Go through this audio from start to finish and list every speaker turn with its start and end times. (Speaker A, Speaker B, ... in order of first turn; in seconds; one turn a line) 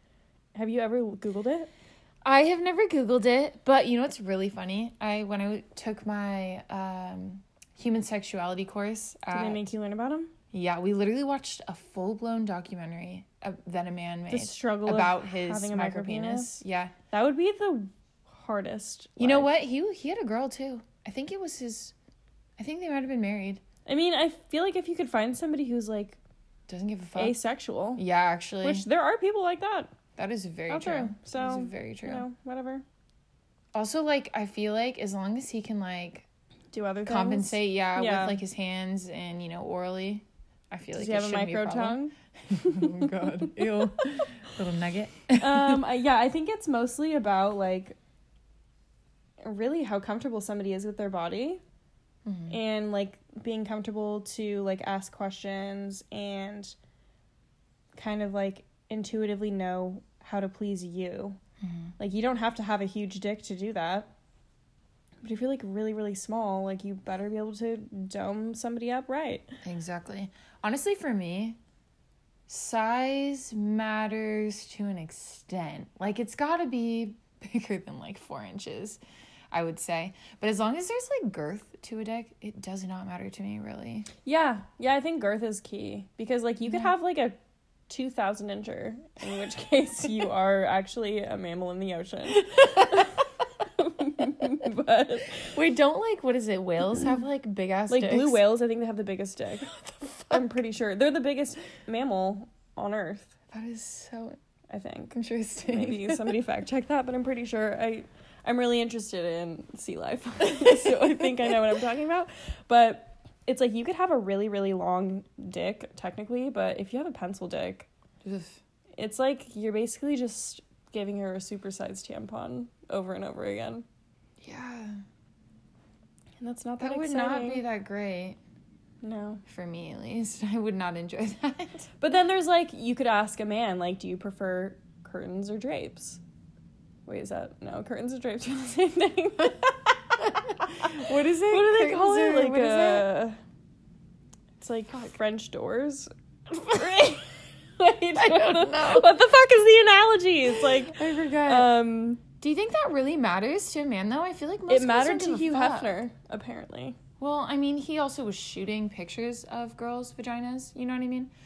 Speaker A: 0.5-1.7
Speaker B: 2.2-9.7
Speaker A: 9.3-10.3
Speaker B: 10.5-16.9
Speaker A: 14.3-19.5
Speaker B: 19.2-21.9
Speaker B: 22.6-23.6
Speaker A: 23.9-26.2
Speaker B: 26.7-27.4
Speaker A: 27.1-28.0
Speaker B: 27.9-28.9
Speaker A: 28.6-29.9
Speaker B: 30.2-32.2
Speaker A: 30.7-32.8
Speaker B: 33.7-36.3
Speaker A: 36.7-38.4
Speaker B: 37.0-45.8
Speaker A: 40.9-43.7
Speaker A: 45.4-48.0
Speaker A: 49.4-51.6
Speaker B: 52.2-52.6
Speaker A: 52.5-56.7
Speaker A: 57.9-61.4
Speaker B: 61.6-61.9
Speaker A: 62.0-64.1
Speaker A: 65.2-69.6
Speaker B: 69.6-71.6
Speaker B: 72.5-79.0
Speaker B: 79.5-84.1
Speaker A: 84.2-87.4
Speaker A: 87.9-95.5
Speaker B: 92.4-93.1
Speaker B: 95.4-98.4
Speaker A: 97.9-99.7
Speaker B: 99.7-100.5
Speaker A: 100.3-103.3
Speaker B: 103.5-104.4
Speaker A: 104.7-117.9
Speaker B: 105.1-106.3
Speaker B: 110.5-111.3
Speaker B: 118.2-118.6
Speaker A: 119.0-123.8
Speaker B: 124.4-125.0
Speaker A: 126.4-127.6
Speaker B: 126.8-128.4
Speaker A: 129.0-129.4
Speaker B: 129.4-131.9
Speaker A: 132.0-136.2
Speaker A: 137.1-140.0
Speaker B: 140.2-143.1
Speaker A: 140.7-143.4
Speaker A: 144.6-152.2
Speaker B: 148.2-149.2
Speaker B: 150.7-151.7
Speaker B: 152.4-156.0
Speaker A: 154.7-157.0
Speaker B: 157.2-161.3